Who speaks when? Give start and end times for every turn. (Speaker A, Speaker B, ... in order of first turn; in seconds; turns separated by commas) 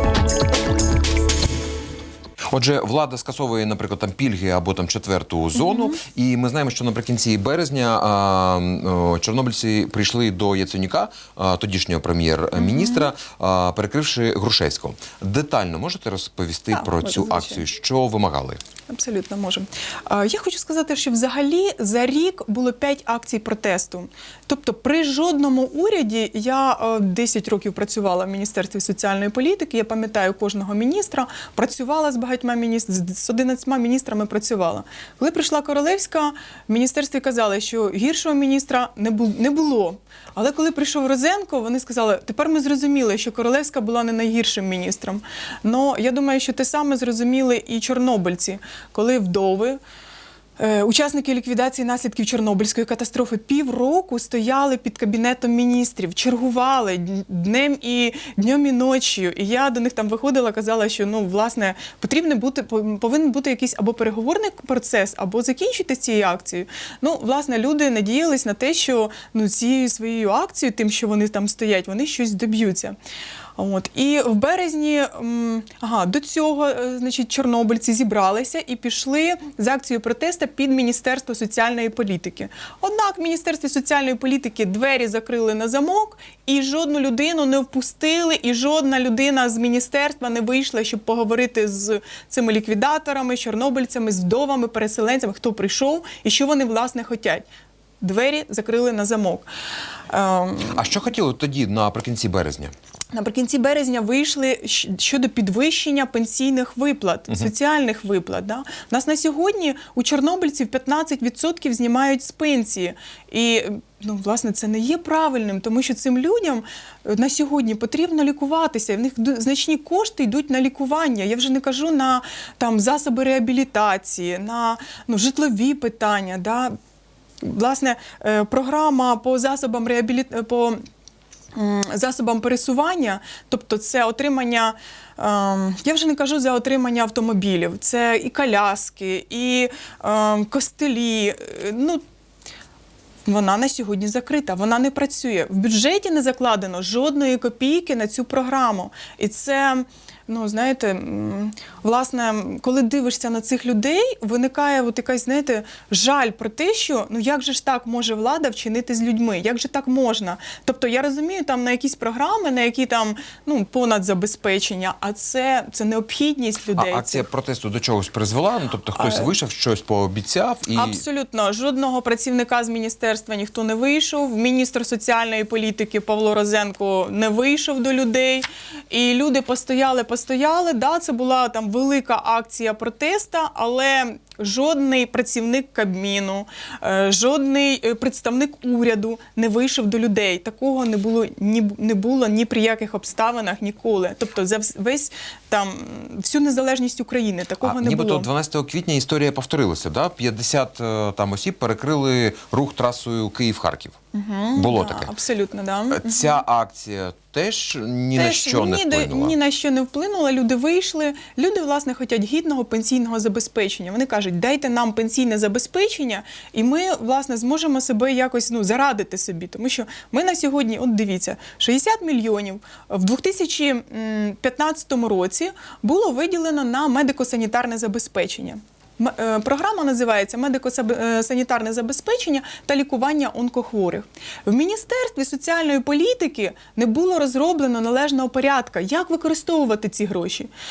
Speaker A: 2.5-18.6, Speaker B: 5.5-6.0, Speaker B: 12.6-13.1, Speaker B: 16.7-17.6, Speaker B: 18.9-49.8, Speaker B: 50.6-73.0, Speaker B: 73.6-97.5, Speaker B: 98.0-99.5, Speaker B: 100.1-101.0, Speaker A: 100.7-102.7, Speaker B: 103.1-126.7, Speaker B: 127.4-130.8, Speaker B: 131.5-142.0, Speaker B: 143.2-167.2, Speaker A: 166.8-171.0, Speaker B: 169.0-169.3, Speaker B: 170.7-198.3, Speaker A: 197.6-203.9, Speaker B: 204.1-206.4, Speaker A: 204.6-205.1, Speaker A: 205.9-209.3, Speaker B: 208.1-240.5